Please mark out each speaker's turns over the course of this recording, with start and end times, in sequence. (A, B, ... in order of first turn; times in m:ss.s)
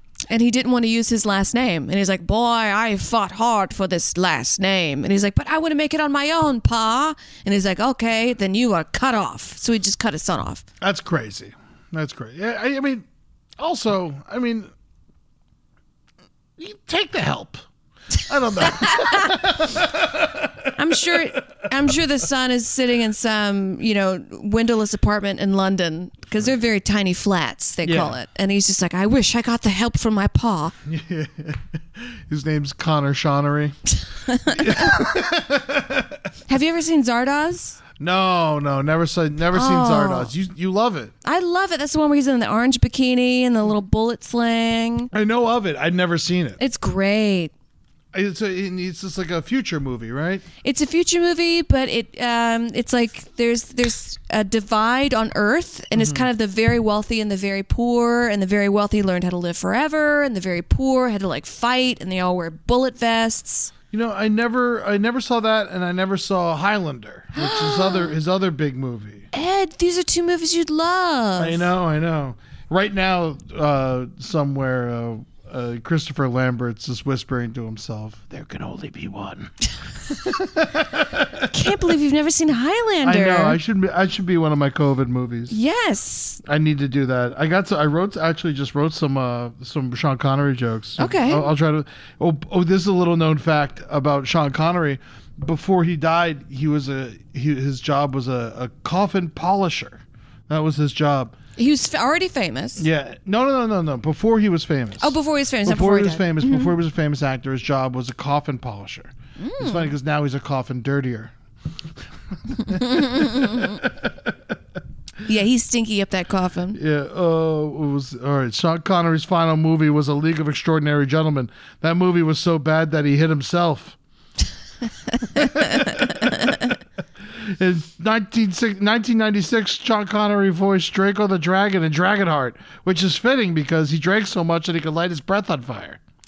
0:00.3-0:10.6 A
0:10.8-0:13.0 B
0:13.6-0:14.7 B
0:16.6-0:17.6 B
0:18.2-0:21.4 B
0:18.6-0:19.3 A
0:20.8-0:30.7 A
0:27.8-0:28.2 B
0:30.8-0:33.8 B
0:34.3-0:34.9 A
0:34.5-0:36.2 B
0:36.5-0:37.8 A
0:38.0-0:41.1 B
0:39.5-0:40.3 A
0:41.2-0:45.1 A
0:45.1-0:46.6 B
0:46.6-0:47.5 A
0:48.1-0:50.4 B
0:50.6-1:03.7 A
0:55.9-0:56.3 B
1:03.9-1:09.3 B
1:07.3-1:08.1 A
1:09.3-1:11.7 A
1:11.4-1:19.5 B
1:20.1-1:21.5 B
1:21.5-1:23.6 A
1:23.0-1:25.6 B
1:25.5-1:26.4 A
1:26.4-1:41.4 B
1:31.0-1:31.5 A
1:41.6-1:42.8 A
1:42.8-1:51.3 B
1:45.0-1:46.7 A
1:49.4-1:49.9 A
1:52.5-1:54.3 B
1:52.6-1:53.8 A
1:55.2-1:56.8 A
1:56.7-2:04.0 B
2:05.2-2:06.6 A
2:05.3-2:06.2 B
2:07.4-2:16.0 B